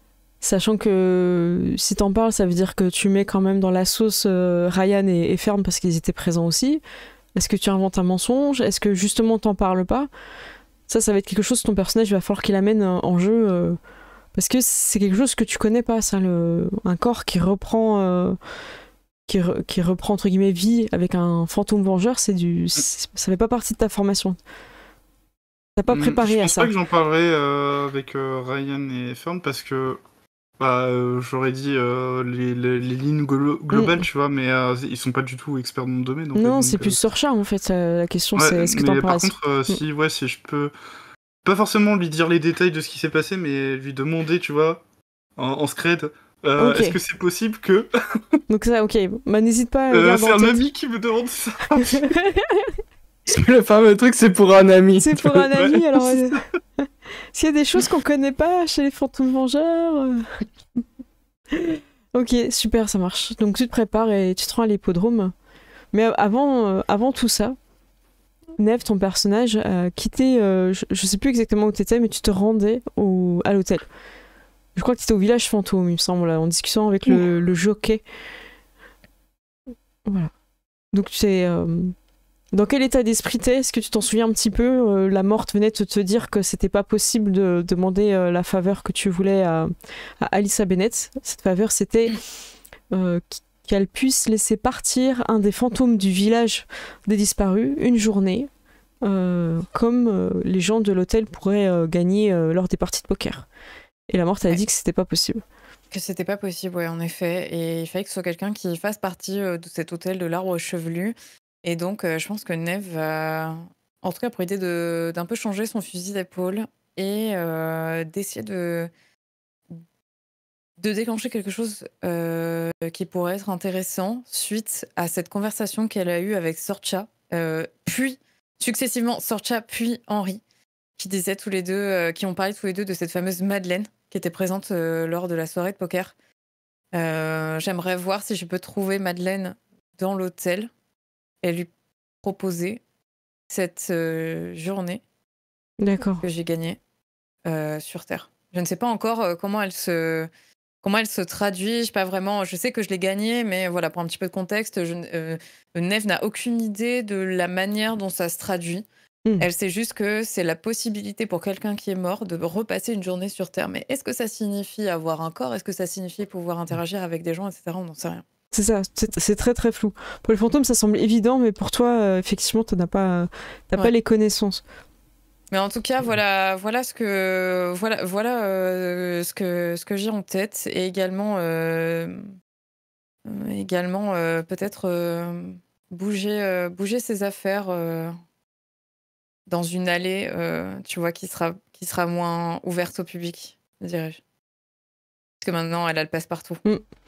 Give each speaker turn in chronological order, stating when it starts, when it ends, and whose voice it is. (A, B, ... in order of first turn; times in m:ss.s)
0:00.4-0:06.8 A
0:07.3-0:10.1 A
0:10.9-0:13.8 A
0:14.3-0:18.4 A
0:19.3-0:24.4 A
0:25.8-0:26.7 A
0:25.9-0:30.0 B
0:30.6-0:37.0 B
0:33.7-0:34.0 A
0:36.4-0:39.8 A
0:38.4-0:40.7 B
0:41.4-0:44.8 B
0:45.4-0:48.4 B
0:46.6-0:47.0 A
0:48.5-0:50.7 A
0:49.9-0:52.1 B
0:51.8-0:52.7 A
0:53.3-0:55.5 C
0:55.0-0:56.4 A
0:57.3-1:00.3 A
1:01.5-1:05.3 A
1:05.9-1:07.6 A
1:08.6-1:13.8 A
1:14.8-1:18.0 A
1:20.0-1:20.3 A
1:20.9-1:21.9 A
1:22.5-1:32.2 A
1:32.9-1:38.5 A
1:39.0-1:43.5 A
1:44.1-1:45.4 A
1:45.9-1:58.9 D
2:00.8-2:10.4 D
2:11.0-2:16.1 D
2:16.9-2:20.7 D
2:21.4-2:21.7 D
2:22.2-2:22.8 D
2:23.5-2:25.0 D
2:25.8-2:26.2 A
2:26.2-2:26.8 D
2:27.4-2:30.3 D
2:30.8-2:38.8 D
2:39.4-2:48.2 D
2:48.5-2:54.6 A
2:55.5-3:02.3 D
3:03.2-3:08.2 D
3:09.5-3:14.2 D
3:15.4-3:16.6 D